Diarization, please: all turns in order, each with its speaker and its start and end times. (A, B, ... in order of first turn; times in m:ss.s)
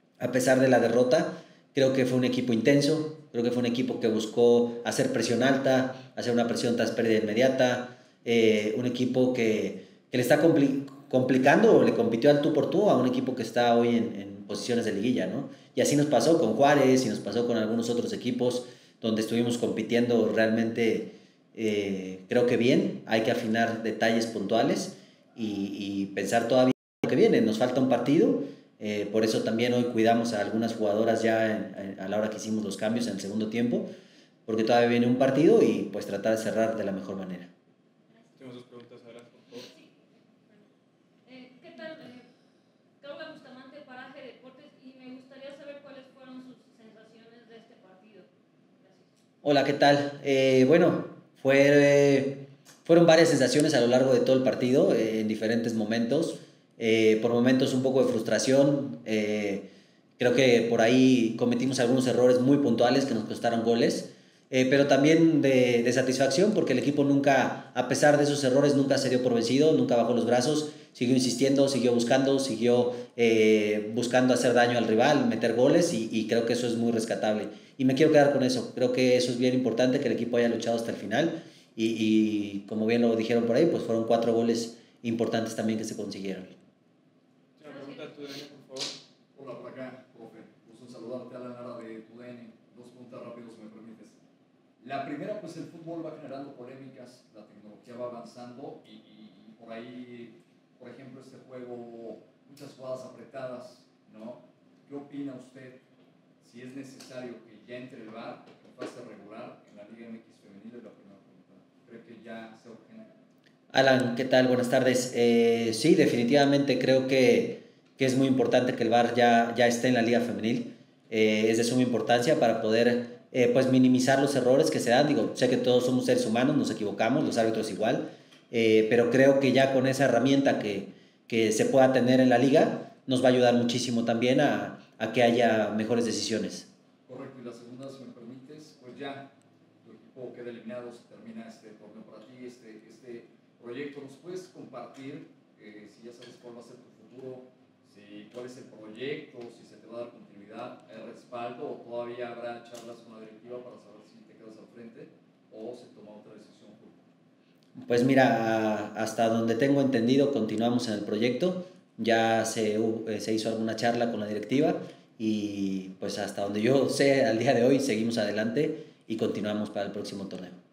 0:00.2-0:33.9 A
0:34.5-0:37.5 A
0:38.3-0:39.7 B
0:39.6-0:40.7 C
0:41.2-0:42.3 C
0:43.0-0:48.3 C
0:48.8-0:49.1 C
0:49.4-1:26.6 A
1:27.6-1:29.0 B
1:27.6-1:28.1 C
1:29.3-1:34.2 D
1:34.8-1:45.8 D
1:46.4-1:53.1 D
1:53.7-2:16.7 A
2:17.0-2:19.3 D
2:19.8-2:37.0 D
2:37.8-2:50.6 A